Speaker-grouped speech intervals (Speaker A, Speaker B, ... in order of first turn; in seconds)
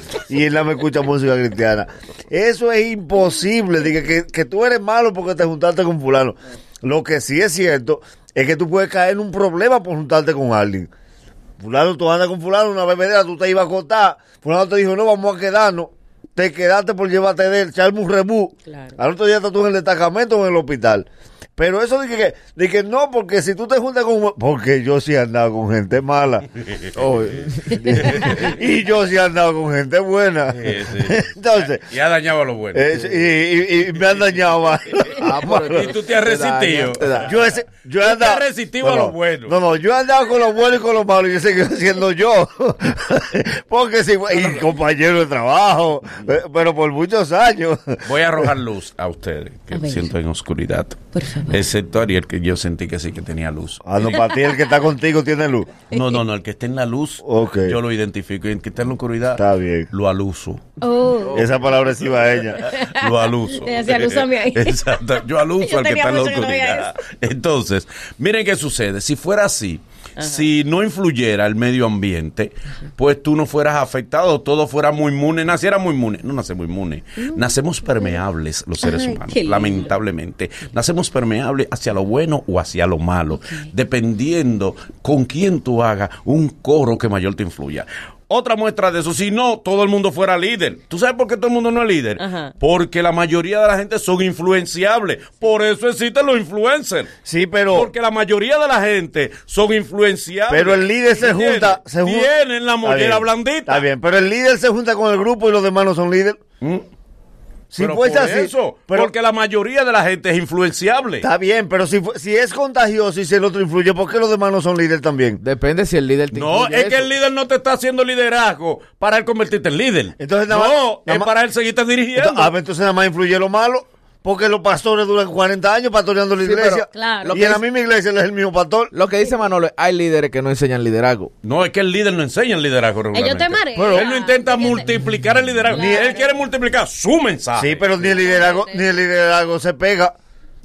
Speaker A: 0.3-10.9, 11.6-21.1, 21.6-26.4, 28.2-31.8, 32.7-35.9, 37.2-48.5, 53.8-55.7, 57.2-57.8, 59.4-59.9, 61.3-62.6, 97.3-97.9, 100.5-102.3, 102.8-106.4, 107.7-109.1, 111.2-115.4, 120.2-121.3, 122.2-128.9, 133.8-134.1, 135.7-136.1, 137.6-140.1
Speaker B: 18.7-19.0, 49.7-50.1, 51.1-51.6, 55.9-56.2, 60.8-61.6, 62.5-64.8, 65.6-66.9, 70.2-70.5, 77.2-78.2, 78.8-79.9, 83.3-83.7, 92.2-92.5, 126.9-127.3, 133.1-134.9, 135.7-136.4, 138.0-139.0
Speaker C: 27.0-28.6, 35.1-37.3, 61.2-61.7, 115.4-117.1, 126.4-127.6, 128.9-131.3
Speaker D: 28.0-28.3, 30.5-32.8, 35.6-39.6, 48.0-51.0, 51.5-54.3, 55.9-60.6, 62.7-97.1, 97.7-103.8, 107.8-111.3, 116.3-122.5, 131.4-137.9